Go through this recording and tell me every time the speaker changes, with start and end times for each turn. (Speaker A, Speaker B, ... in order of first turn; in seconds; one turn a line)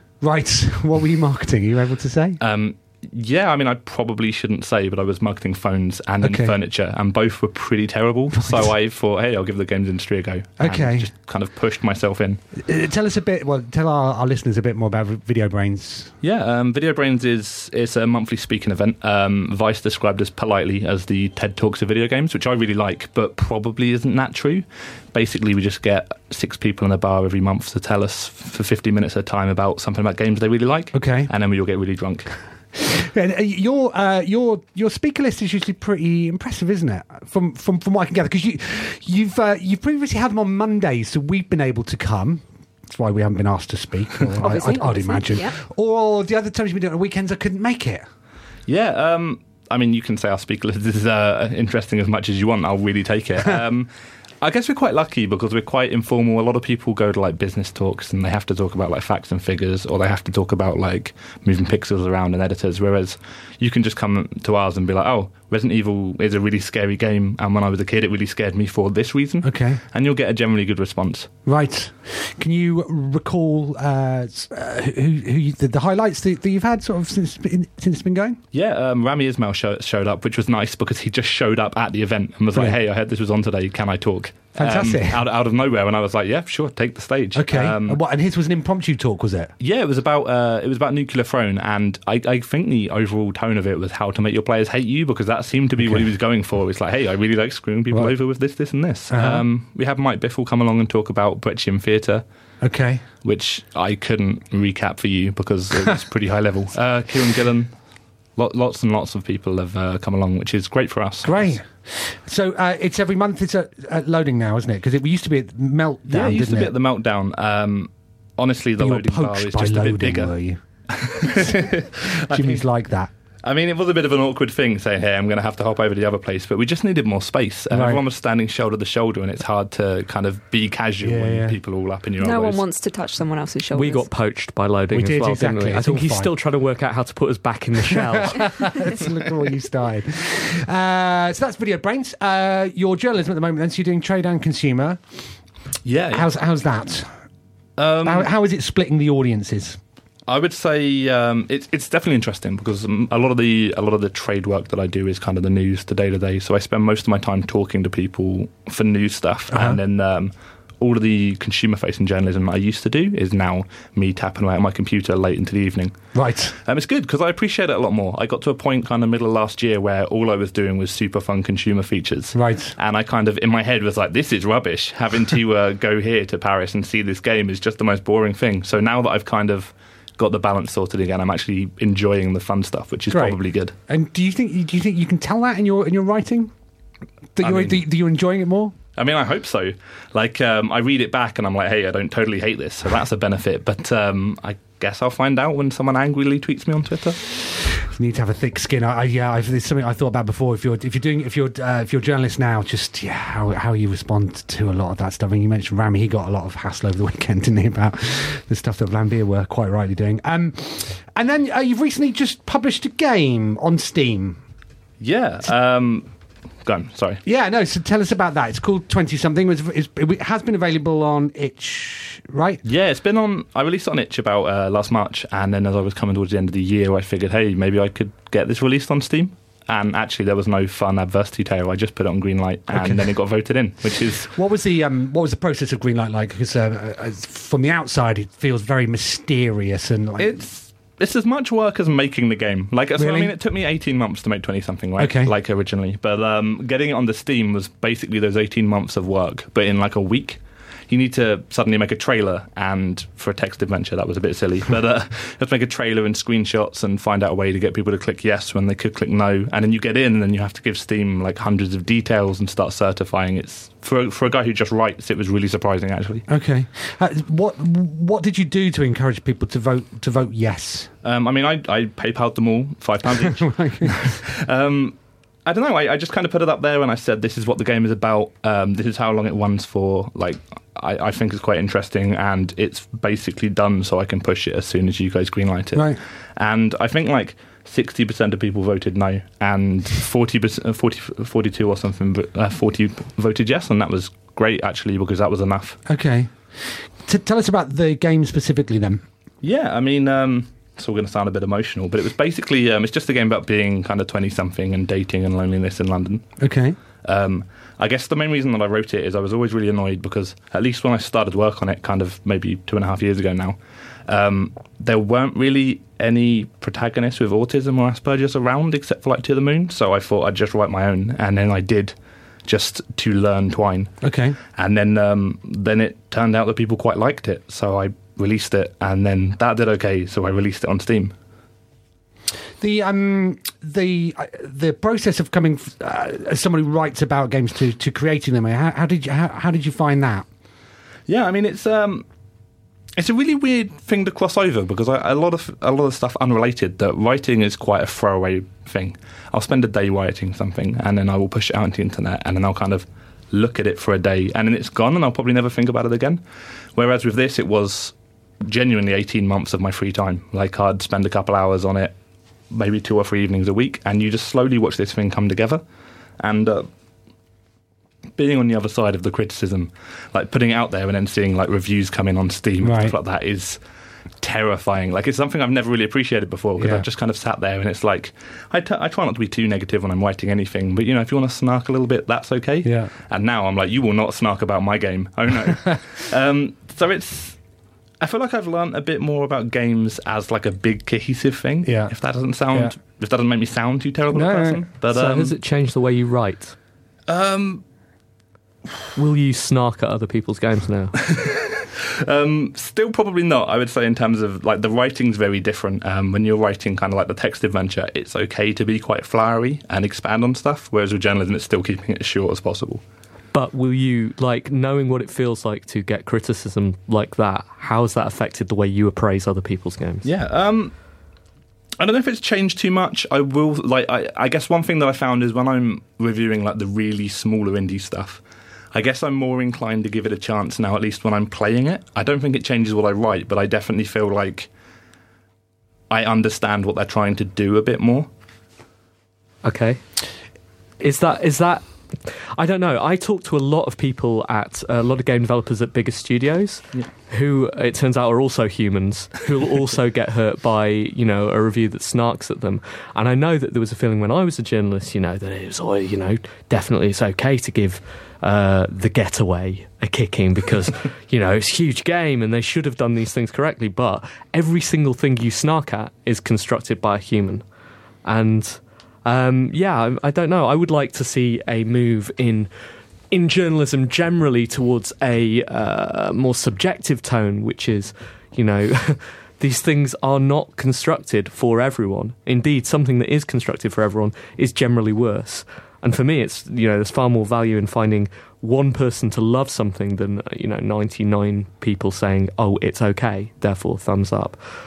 Speaker A: 0.2-2.4
Speaker B: 2.4-12.4
Speaker A: 6.2-6.6
Speaker A: 8.3-8.7
Speaker A: 10.6-11.1
Speaker A: 12.6-16.1
Speaker B: 16.2-32.3
Speaker A: 30.9-31.3
Speaker A: 32.8-48.1
Speaker C: 44.4-45.5
Speaker B: 48.7-53.9
Speaker B: 54.4-71.3
Speaker A: 69.4-69.8
Speaker A: 71.5-78.4
Speaker B: 78.5-88.0
Speaker A: 84.6-85.2
Speaker A: 87.3-89.5
Speaker B: 89.6-102.2
Speaker A: 99.1-99.5
Speaker A: 102.6-103.0
Speaker B: 103.2-107.7
Speaker B: 108.4-111.6
Speaker A: 111.2-116.7
Speaker B: 116.1-120.3
Speaker A: 118.8-120.6
Speaker B: 120.9-122.6
Speaker A: 121.2-121.8
Speaker A: 122.3-123.1
Speaker B: 123.4-132.6
Speaker A: 127.7-128.0
Speaker A: 131.0-131.6
Speaker C: 132.2-134.1
Speaker D: 133.7-138.7
Speaker A: 134.9-136.3
Speaker A: 137.8-145.0
Speaker B: 145.8-146.3
Speaker A: 146.1-147.1
Speaker B: 147.8-148.3
Speaker A: 148.0-149.8
Speaker B: 150.3-166.0
Speaker A: 159.5-159.8
Speaker A: 166.2-166.6
Speaker B: 166.7-183.7
Speaker A: 172.3-172.8
Speaker A: 183.1-183.4
Speaker A: 183.9-186.5
Speaker A: 187.4-188.8
Speaker B: 187.4-187.8
Speaker B: 189.0-197.2
Speaker A: 197.9-214.4
Speaker B: 215.0-216.1
Speaker B: 216.7-217.2
Speaker A: 217.2-222.6
Speaker B: 222.7-234.3
Speaker A: 232.7-233.1
Speaker A: 234.3-240.4
Speaker B: 240.2-266.2
Speaker A: 243.0-243.3
Speaker A: 245.0-245.3
Speaker A: 266.3-270.9
Speaker B: 271.0-295.8
Speaker A: 273.2-274.0
Speaker A: 285.8-286.0
Speaker A: 295.9-299.0
Speaker B: 299.4-306.3
Speaker A: 306.4-306.8
Speaker B: 307.0-321.9
Speaker B: 322.5-323.9
Speaker A: 324.0-324.4
Speaker B: 324.6-331.1
Speaker A: 332.6-340.3
Speaker B: 341.1-342.1
Speaker B: 343.0-356.2
Speaker B: 356.8-361.9
Speaker B: 362.5-365.6
Speaker B: 366.2-366.7
Speaker B: 368.2-373.6
Speaker A: 372.6-373.0
Speaker B: 374.2-387.4
Speaker A: 376.6-376.9
Speaker A: 382.6-382.9
Speaker B: 388.0-395.4
Speaker A: 391.6-391.9
Speaker A: 392.5-392.8
Speaker A: 394.1-394.6
Speaker D: 394.9-396.6
Speaker B: 397.1-397.6
Speaker D: 399.0-401.0
Speaker B: 401.0-412.8
Speaker D: 413.3-420.1
Speaker B: 420.0-420.7
Speaker B: 421.8-428.2
Speaker B: 428.7-434.5
Speaker B: 435.9-438.1
Speaker D: 439.4-439.8
Speaker D: 440.8-467.4
Speaker D: 468.1-472.5
Speaker D: 473.1-494.4